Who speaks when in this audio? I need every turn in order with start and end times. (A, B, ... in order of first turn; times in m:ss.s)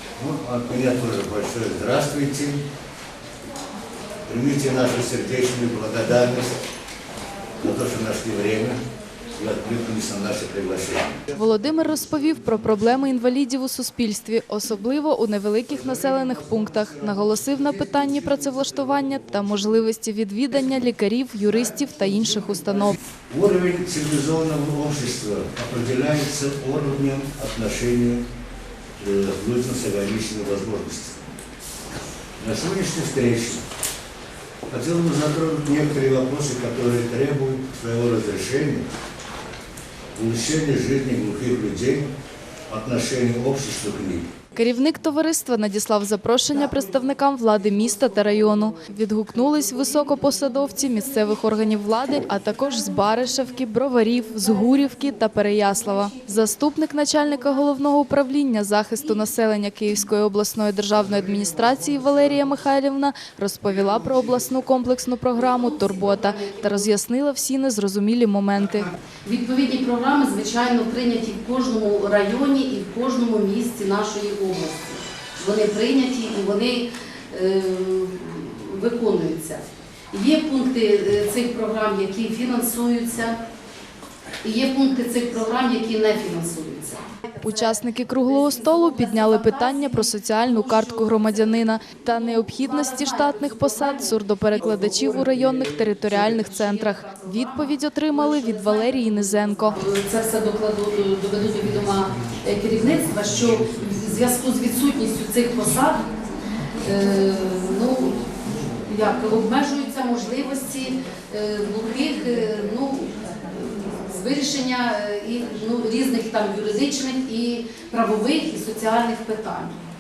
0:00.2-0:02.6 A
0:04.3-0:06.6 A
0:07.6-0:08.8 A
0:09.3-0:11.2 A
0:11.3-0:23.0 B
0:23.3-0:28.3 A
0:29.0-0:31.2 A
0:32.4-0:33.6 A
0:34.7-0:38.9 A
0:40.1-0:42.1 A
0:42.7-0:44.3 A
0:44.6-1:08.9 B
1:05.4-1:06.9 C
1:09.2-1:23.4 C
1:24.4-1:35.1 C
1:27.4-1:39.8 B
1:36.1-1:46.1 C
1:46.8-1:59.8 C